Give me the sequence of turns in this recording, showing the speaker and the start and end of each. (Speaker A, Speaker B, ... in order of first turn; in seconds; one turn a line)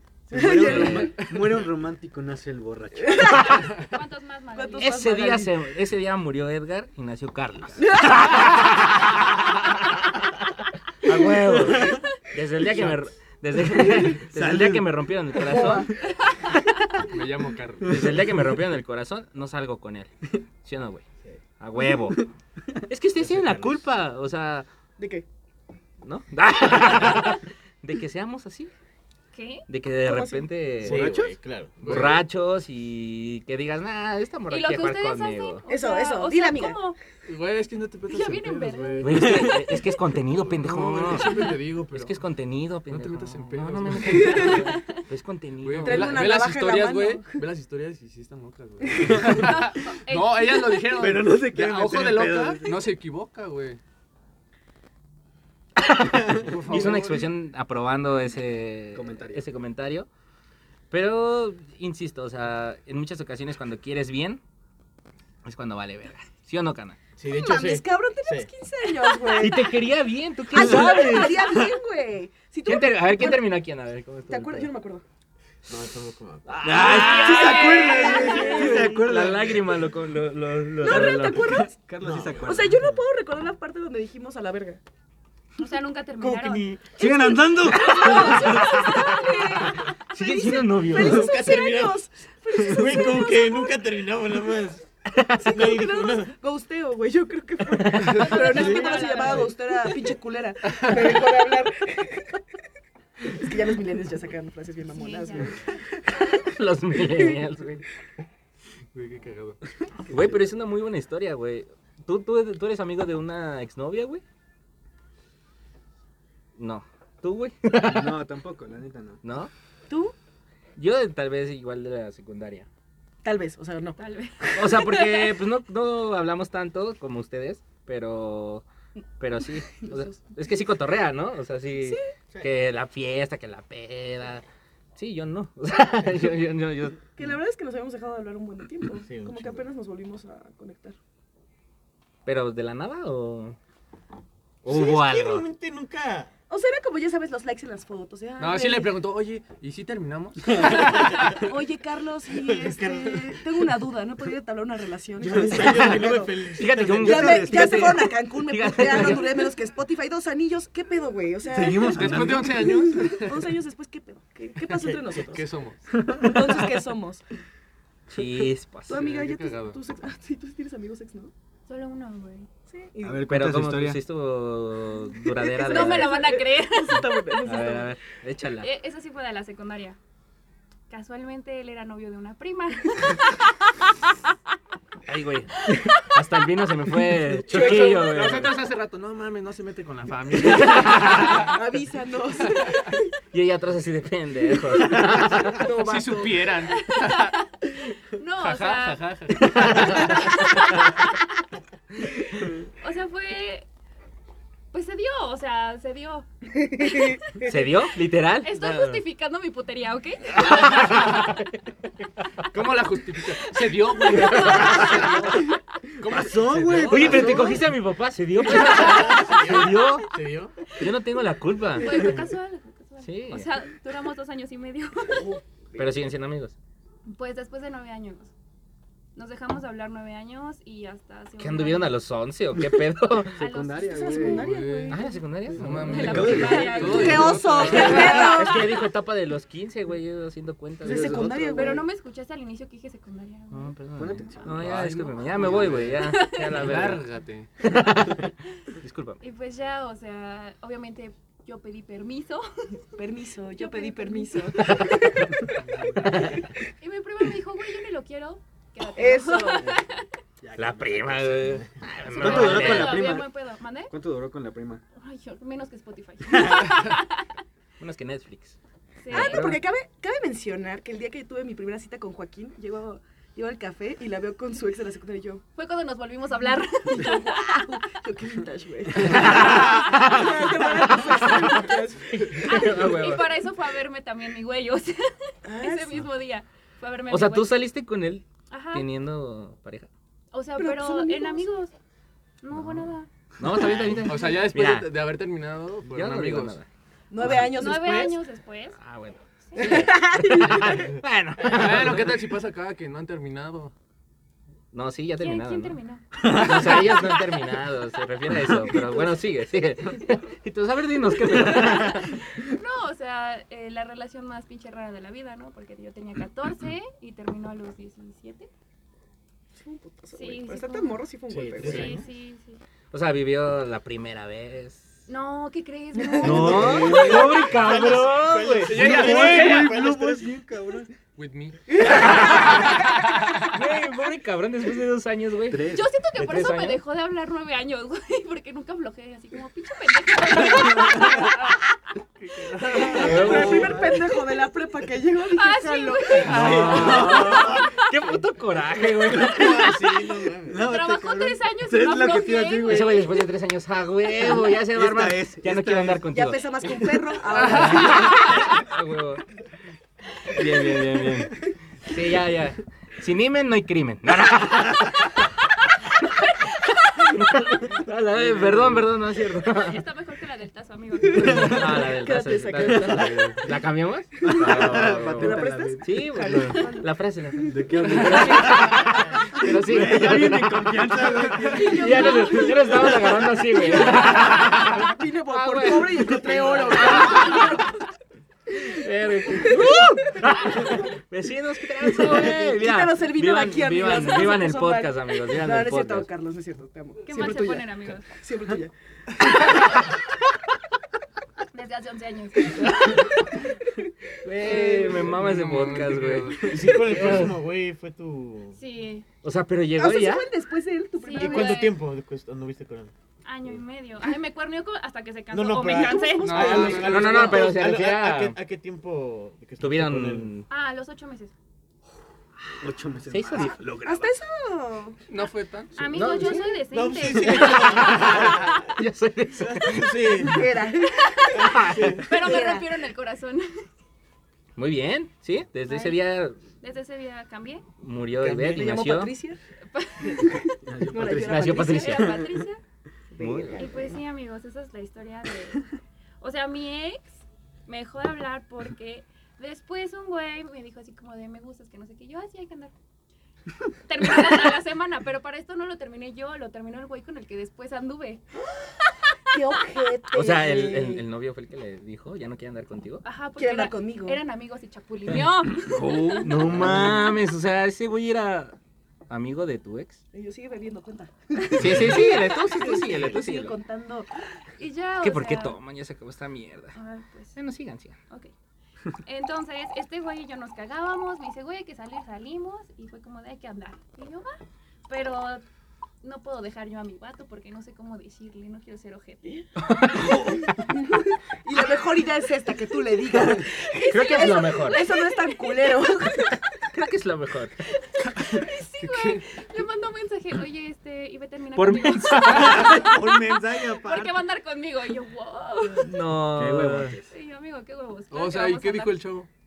Speaker A: 0.3-1.2
Speaker B: 0.3-1.2
Speaker C: 0.3-3.6
Speaker B: 3.0-3.9
Speaker A: 3.2-3.7
Speaker D: 3.7-5.1
Speaker B: 4.5-5.5
Speaker A: 4.8-9.9
Speaker B: 7.8-8.8
Speaker A: 11.0-16.5
Speaker C: 11.7-12.0
Speaker C: 13.7-15.0
Speaker B: 15.4-16.0
Speaker E: 17.1-17.9
Speaker A: 17.8-20.1
Speaker A: 20.6-21.0
Speaker A: 21.6-22.3
Speaker A: 22.9-24.7
Speaker F: 23.2-23.9
Speaker B: 25.0-25.2
Speaker A: 26.0-28.7
Speaker D: 29.3-29.6
Speaker A: 29.7-31.1
Speaker B: 30.0-30.5
Speaker F: 30.8-32.2
Speaker C: 30.9-31.3
Speaker E: 31.8-32.2
Speaker A: 31.8-35.6
Speaker D: 34.5-37.0
Speaker B: 35.7-36.8
Speaker E: 37.3-39.5
Speaker D: 38.1-39.6
Speaker A: 39.0-46.3
Speaker E: 40.5-42.2
Speaker E: 42.9-44.8
Speaker B: 44.2-44.6
Speaker D: 44.3-44.8
Speaker E: 45.6-53.8
Speaker B: 45.8-47.4
Speaker C: 49.0-49.4
Speaker D: 49.2-51.0
Speaker C: 51.0-52.6
Speaker A: 56.1-60.1
Speaker E: 56.4-57.3
Speaker C: 58.9-59.5
Speaker A: 60.9-64.4
Speaker A: 65.5-67.0
Speaker F: 67.2-68.5
Speaker B: 67.3-69.8
Speaker A: 69.3-71.5
Speaker B: 70.5-73.6
Speaker C: 70.6-71.7
Speaker A: 72.7-74.7
Speaker B: 74.3-75.0
Speaker F: 75.7-76.8
Speaker A: 76.5-81.6
Speaker C: 76.6-79.8
Speaker D: 76.8-78.5
Speaker B: 77.2-78.9
Speaker F: 78.5-79.0
Speaker B: 80.8-81.8
Speaker C: 80.9-82.8
Speaker F: 82.0-83.0
Speaker B: 82.4-84.8
Speaker D: 85.6-86.7
Speaker F: 86.2-87.0
Speaker C: 87.0-88.7
Speaker B: 87.0-93.8
Speaker D: 87.7-89.7
Speaker A: 90.1-91.3
Speaker F: 90.9-92.0
Speaker F: 92.5-94.9
Speaker A: 95.1-95.5
Speaker B: 95.4-102.4
Speaker F: 95.4-96.3
Speaker A: 97.7-98.3
Speaker D: 98.0-99.6
Speaker F: 98.5-99.2
Speaker B: 103.2-105.6
Speaker D: 104.9-105.7
Speaker A: 106.3-107.8
Speaker E: 108.9-109.6
Speaker A: 110.1-114.2
Speaker A: 116.6-118.2
Speaker C: 117.8-119.2
Speaker A: 119.2-119.5
Speaker B: 119.9-120.2
Speaker A: 120.8-122.7
Speaker B: 123.2-124.7
Speaker D: 124.0-125.0
Speaker A: 124.5-128.6
Speaker A: 129.2-134.4
Speaker B: 129.8-130.2
Speaker B: 131.8-132.1
Speaker A: 135.0-137.1
Speaker B: 137.2-141.0
Speaker F: 139.0-139.7
Speaker A: 142.3-143.6
Speaker A: 144.6-145.4
Speaker F: 144.7-146.3
Speaker B: 146.5-149.0
Speaker E: 148.4-151.3
Speaker B: 150.6-156.4
Speaker C: 150.7-150.9
Speaker F: 152.5-153.4
Speaker F: 155.2-157.8
Speaker C: 155.3-156.0
Speaker A: 156.5-159.5
Speaker B: 156.9-165.5
Speaker C: 157.2-157.9
Speaker C: 161.5-162.8
Speaker E: 161.8-163.4
Speaker E: 164.7-165.8
Speaker C: 166.0-166.7
Speaker B: 166.1-167.2
Speaker A: 168.1-169.0
Speaker C: 168.1-168.5
Speaker B: 168.9-171.3
Speaker E: 168.9-169.8
Speaker D: 171.7-172.5
Speaker B: 172.7-173.2
Speaker C: 173.0-174.0
Speaker A: 173.3-176.3
Speaker B: 175.3-177.9
Speaker D: 175.4-177.4
Speaker A: 177.4-178.7
Speaker D: 178.6-180.0
Speaker D: 180.9-183.9
Speaker A: 185.1-188.6
Speaker B: 187.5-188.1
Speaker E: 187.5-191.6
Speaker A: 190.4-191.5
Speaker B: 191.3-193.1
Speaker A: 193.3-195.7
Speaker B: 194.8-196.7
Speaker E: 195.7-197.4
Speaker D: 196.7-197.5
Speaker D: 198.1-201.1
Speaker E: 198.4-200.1
Speaker A: 199.5-200.1
Speaker D: 202.4-203.7
Speaker D: 204.7-207.2
Speaker B: 206.6-207.7
Speaker A: 207.4-209.0
Speaker D: 208.4-210.9
Speaker A: 210.3-211.5
Speaker E: 210.8-211.2
Speaker E: 212.5-215.4
Speaker D: 214.1-215.3
Speaker A: 214.2-215.1
Speaker E: 216.0-217.5
Speaker C: 216.0-217.6
Speaker A: 216.8-220.1
Speaker F: 218.9-220.6
Speaker D: 219.0-219.5
Speaker A: 220.8-222.2
Speaker D: 221.8-225.4
Speaker B: 221.8-222.2
Speaker A: 223.0-223.5
Speaker B: 225.1-225.9
Speaker A: 225.8-226.6
Speaker D: 227.1-228.3
Speaker D: 229.2-232.0
Speaker A: 231.4-233.4
Speaker C: 233.3-234.5
Speaker D: 233.4-234.5
Speaker B: 233.9-235.1
Speaker E: 234.4-238.3
Speaker A: 234.9-241.4
Speaker D: 235.8-238.5
Speaker C: 235.9-238.3
Speaker B: 236.4-238.7
Speaker C: 240.8-241.8
Speaker B: 240.8-241.9
Speaker D: 241.5-243.8
Speaker A: 243.5-247.1
Speaker C: 243.9-245.9
Speaker E: 244.6-247.5
Speaker D: 245.1-246.6
Speaker A: 247.6-249.2
Speaker D: 249.2-252.5
Speaker B: 253.0-255.5
Speaker D: 253.5-254.9
Speaker B: 256.1-256.4
Speaker D: 256.8-260.1
Speaker B: 258.9-259.7
Speaker C: 260.4-263.4
Speaker A: 260.6-263.2
Speaker D: 262.1-263.9
Speaker C: 263.9-264.8
Speaker D: 265.0-267.2
Speaker A: 267.8-268.6
Speaker D: 269.0-269.5
Speaker A: 269.1-269.6
Speaker B: 269.1-275.4
Speaker D: 275.6-277.7
Speaker B: 276.9-282.9
Speaker A: 279.0-283.3
Speaker D: 279.4-279.8
Speaker D: 281.3-281.7
Speaker D: 282.3-287.6
Speaker B: 285.5-286.1
Speaker A: 287.1-289.9
Speaker D: 288.5-288.9
Speaker D: 290.3-291.7
Speaker B: 290.6-291.5
Speaker D: 292.4-293.1
Speaker A: 292.5-294.9
Speaker E: 294.0-296.6
Speaker A: 295.9-296.7
Speaker B: 297.1-298.2
Speaker A: 297.2-297.5
Speaker D: 297.3-298.8
Speaker A: 298.8-302.2
Speaker B: 299.6-300.9
Speaker E: 300.6-303.7
Speaker A: 304.7-312.2
Speaker D: 305.2-307.4
Speaker C: 306.2-306.9
Speaker C: 308.5-308.8
Speaker D: 311.3-318.5
Speaker B: 319.6-322.0
Speaker D: 320.1-321.1
Speaker F: 321.3-322.1
Speaker A: 321.3-322.0
Speaker D: 321.6-322.6
Speaker A: 322.9-325.0
Speaker D: 325.1-327.5
Speaker B: 325.9-327.1
Speaker A: 326.2-329.1
Speaker C: 326.2-327.7
Speaker F: 326.6-330.3
Speaker E: 328.6-329.7
Speaker C: 328.7-330.9
Speaker E: 331.1-333.4
Speaker A: 331.8-332.9
Speaker A: 333.5-336.8
Speaker C: 335.5-335.9
Speaker D: 335.7-341.6
Speaker C: 340.7-341.2
Speaker C: 342.6-344.1
Speaker A: 342.6-343.9
Speaker D: 342.7-342.9
Speaker B: 342.7-347.0
Speaker F: 343.0-343.7
Speaker D: 345.2-347.8
Speaker A: 346.2-349.8
Speaker C: 346.3-347.6
Speaker F: 346.3-347.5
Speaker C: 349.2-349.6
Speaker F: 349.2-350.7
Speaker C: 350.4-353.1
Speaker D: 350.6-353.1
Speaker A: 352.6-356.4
Speaker C: 354.2-356.1
Speaker B: 356.1-358.3
Speaker A: 357.3-359.2
Speaker D: 357.9-358.4
Speaker A: 360.3-366.2
Speaker A: 366.9-369.8
Speaker C: 368.2-368.9
Speaker D: 369.5-371.7
Speaker B: 371.1-373.4
Speaker C: 371.1-371.8
Speaker A: 371.1-387.7
Speaker C: 372.6-373.3
Speaker B: 374.2-377.6
Speaker C: 374.2-376.5
Speaker C: 377.5-382.4
Speaker E: 377.9-378.2
Speaker F: 380.2-381.1
Speaker D: 381.5-382.9
Speaker B: 381.5-387.7
Speaker C: 386.3-386.8
Speaker A: 388.5-396.1
Speaker B: 389.3-390.9
Speaker B: 391.9-399.6
Speaker D: 397.1-398.1
Speaker D: 401.5-403.1
Speaker B: 402.6-403.0
Speaker B: 403.8-405.1
Speaker A: 404.2-407.4
Speaker E: 404.5-406.7
Speaker F: 406.4-408.6
Speaker D: 408.6-409.1
Speaker A: 409.2-410.3
Speaker B: 409.8-411.7
Speaker D: 411.0-411.8
Speaker F: 411.1-412.9
Speaker D: 413.2-416.8
Speaker F: 415.3-420.3
Speaker B: 415.6-417.2
Speaker E: 416.2-417.5
Speaker A: 416.4-418.4
Speaker A: 419.6-420.5
Speaker D: 420.5-421.3
Speaker C: 422.6-423.9
Speaker A: 423.1-424.1
Speaker B: 423.9-425.0
Speaker E: 425.1-426.0
Speaker D: 425.8-428.5
Speaker A: 425.9-426.4
Speaker B: 426.0-426.6
Speaker F: 426.7-428.7
Speaker A: 427.4-430.3
Speaker F: 429.4-430.7
Speaker B: 430.2-432.7
Speaker D: 431.0-431.5
Speaker F: 431.4-432.2
Speaker A: 431.4-432.0
Speaker D: 432.0-433.6
Speaker A: 434.6-436.4
Speaker D: 435.7-436.0
Speaker D: 436.6-437.6
Speaker A: 437.8-439.1
Speaker B: 438.2-439.4
Speaker D: 439.7-440.6
Speaker C: 440.6-442.3
Speaker B: 440.9-442.1
Speaker A: 441.0-442.2
Speaker D: 441.5-442.6
Speaker B: 443.1-444.0
Speaker A: 443.2-443.7
Speaker D: 443.6-452.7
Speaker D: 453.9-458.2
Speaker B: 459.3-461.1
Speaker A: 460.1-463.0
Speaker D: 463.0-466.7
Speaker B: 463.4-464.2
Speaker C: 465.6-467.0
Speaker A: 466.2-468.6
Speaker A: 469.1-470.0
Speaker B: 470.1-474.1
Speaker A: 471.6-473.6
Speaker D: 474.6-475.6
Speaker A: 475.0-476.8
Speaker D: 476.8-477.4
Speaker A: 477.4-477.9
Speaker D: 478.9-485.4
Speaker D: 486.0-489.4
Speaker A: 489.6-490.5
Speaker B: 490.0-496.4
Speaker A: 493.9-494.8
Speaker D: 494.0-495.1
Speaker A: 496.7-497.6
Speaker D: 498.1-506.0
Speaker E: 498.2-499.3
Speaker A: 501.6-502.9
Speaker F: 502.4-504.2
Speaker A: 505.8-507.0
Speaker C: 506.2-507.1
Speaker D: 507.1-509.0
Speaker E: 508.1-509.3